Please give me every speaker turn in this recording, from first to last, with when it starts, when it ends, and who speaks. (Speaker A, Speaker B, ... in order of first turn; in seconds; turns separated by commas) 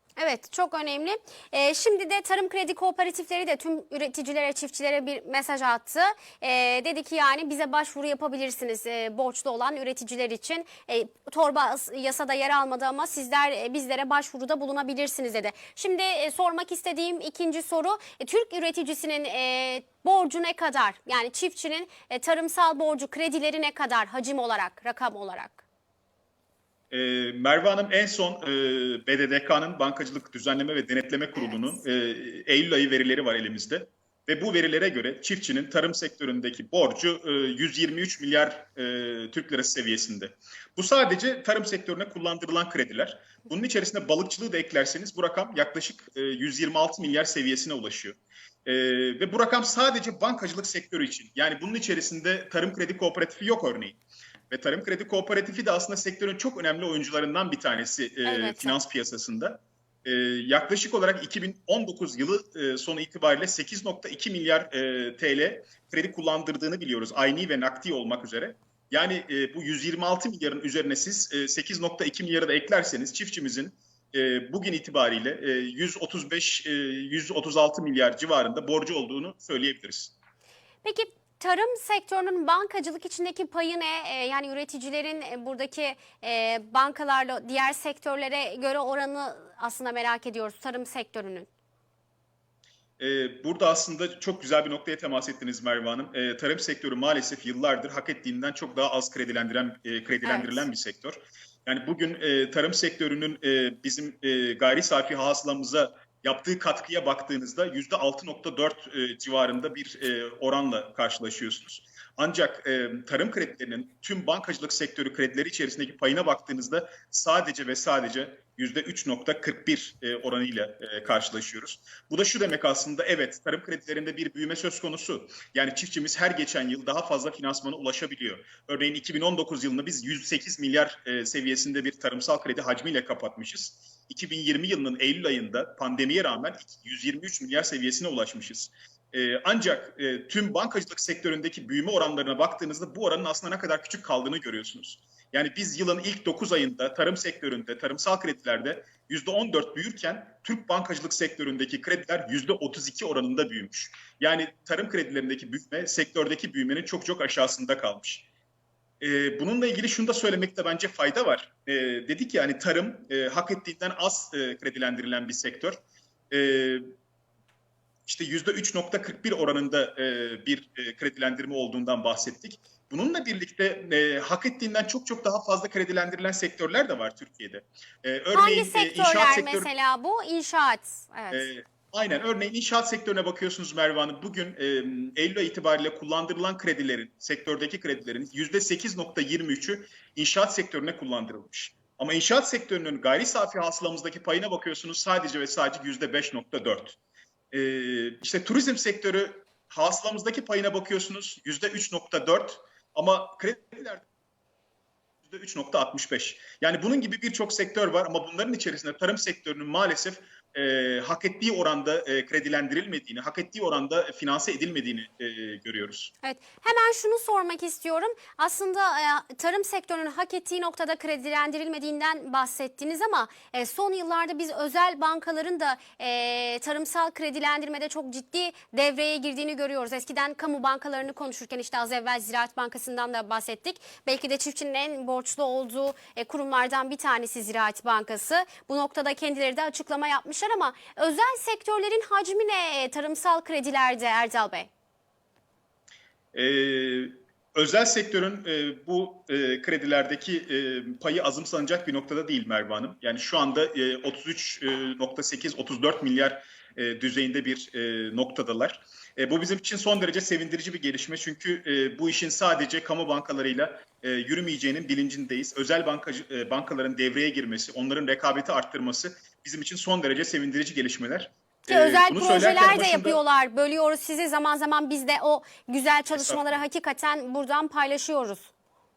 Speaker A: 0.2-25.6, Speaker B: 26.9-54.0, Speaker B: 54.5-80.1, Speaker A: 58.2-58.8, Speaker A: 80.8-91.5, Speaker B: 93.0-158.3, Speaker A: 100.2-100.6, Speaker B: 159.0-165.8, Speaker B: 166.3-166.9, Speaker B: 168.1-179.7, Speaker A: 178.3-181.5, Speaker B: 181.3-197.0, Speaker B: 197.5-204.0, Speaker B: 205.2-216.1, Speaker A: 216.2-244.7, Speaker B: 246.3-273.2, Speaker A: 271.7-278.5, Speaker B: 276.1-276.6